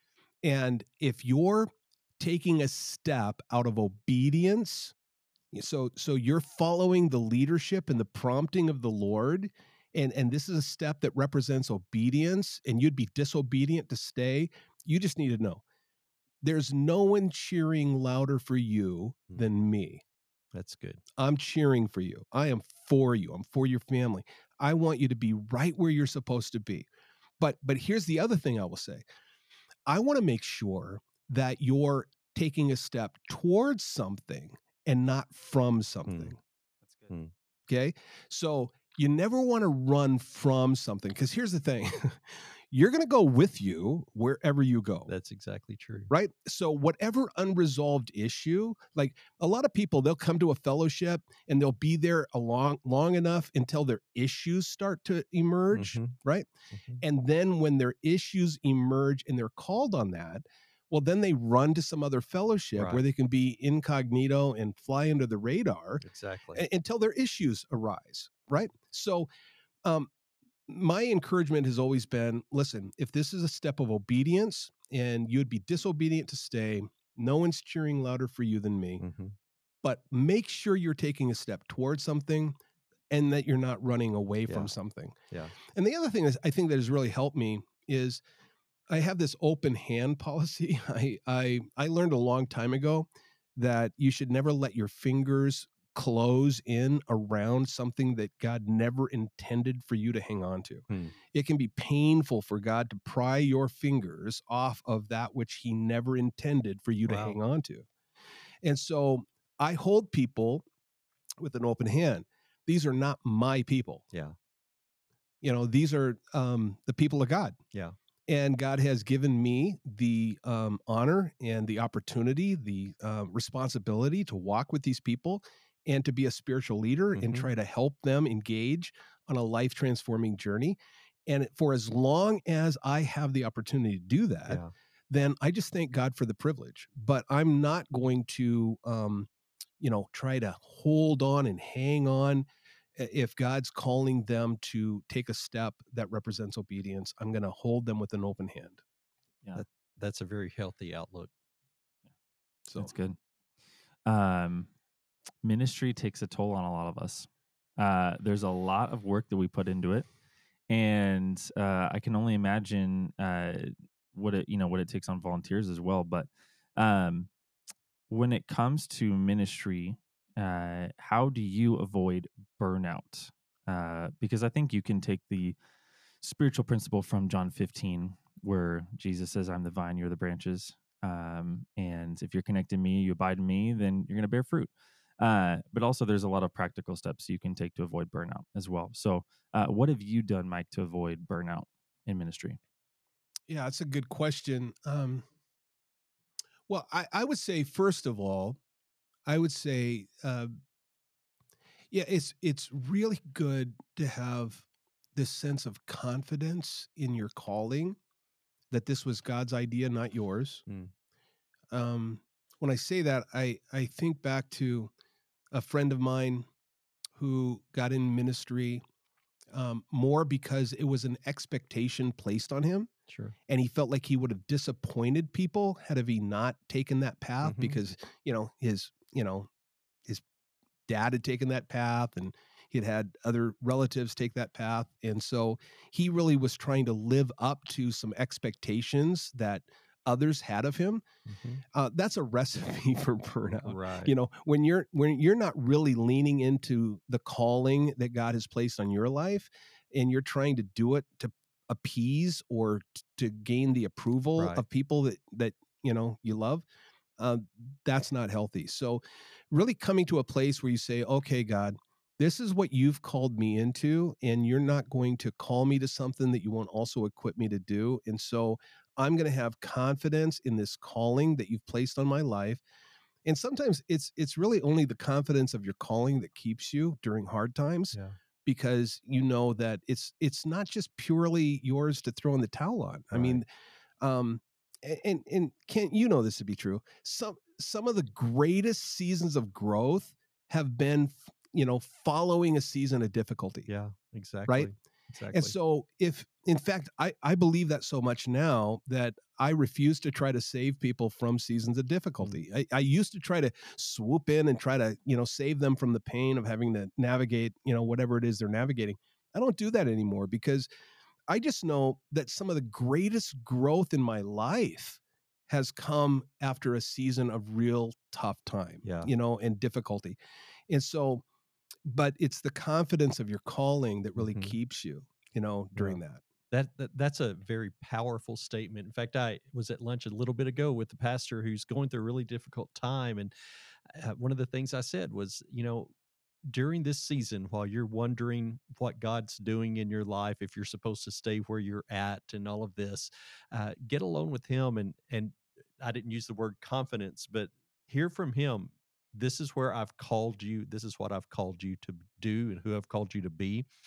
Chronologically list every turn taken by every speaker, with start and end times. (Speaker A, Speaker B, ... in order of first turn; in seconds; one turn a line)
Speaker A: 0.4-4.9
Speaker A: 5.5-15.6
Speaker A: 16.4-20.0
Speaker B: 20.5-21.0
Speaker A: 21.2-26.9
Speaker A: 27.4-29.0
Speaker A: 29.9-36.4
Speaker B: 36.1-36.3
Speaker C: 36.9-37.1
Speaker A: 37.7-45.1
Speaker B: 45.1-46.1
Speaker A: 46.1-56.5
Speaker B: 55.7-56.1
Speaker B: 56.7-57.0
Speaker A: 57.0-69.3
Speaker B: 62.8-63.0
Speaker B: 66.0-66.6
Speaker A: 69.8-70.1
Speaker A: 70.7-79.0
Speaker B: 79.0-79.3
Speaker A: 79.8-82.5
Speaker A: 83.1-88.2
Speaker A: 88.9-107.9
Speaker B: 100.9-101.2
Speaker B: 107.1-107.4
Speaker A: 108.6-110.6
Speaker A: 111.4-114.0
Speaker A: 115.4-117.6
Speaker A: 118.3-139.3
Speaker B: 127.2-127.5
Speaker A: 139.8-148.8
Speaker B: 149.6-151.3
Speaker C: 152.8-153.2
Speaker C: 154.1-154.7
Speaker C: 155.4-160.1
Speaker C: 160.7-167.3
Speaker C: 168.1-175.6
Speaker C: 176.2-192.6
Speaker A: 193.5-195.2
Speaker A: 196.7-198.6
Speaker A: 199.2-200.5
Speaker A: 201.9-208.0
Speaker A: 208.7-210.6
Speaker A: 211.7-214.9
Speaker A: 215.5-216.4
Speaker A: 217.2-218.8
Speaker A: 219.5-222.9
Speaker B: 223.1-223.3
Speaker A: 223.5-229.5
Speaker B: 227.4-227.8
Speaker A: 230.9-241.0
Speaker B: 241.3-241.6
Speaker A: 241.7-256.6
Speaker B: 243.7-244.1
Speaker B: 254.4-254.6
Speaker A: 257.2-272.6
Speaker A: 273.2-283.4
Speaker B: 283.1-283.4
Speaker A: 284.0-293.7
Speaker B: 293.7-295.5
Speaker A: 295.3-310.7
Speaker A: 311.3-320.1
Speaker B: 318.8-319.1
Speaker A: 320.7-321.2
Speaker A: 321.8-326.2
Speaker B: 324.2-324.5
Speaker B: 326.5-333.3
Speaker B: 333.9-335.9
Speaker B: 336.5-353.7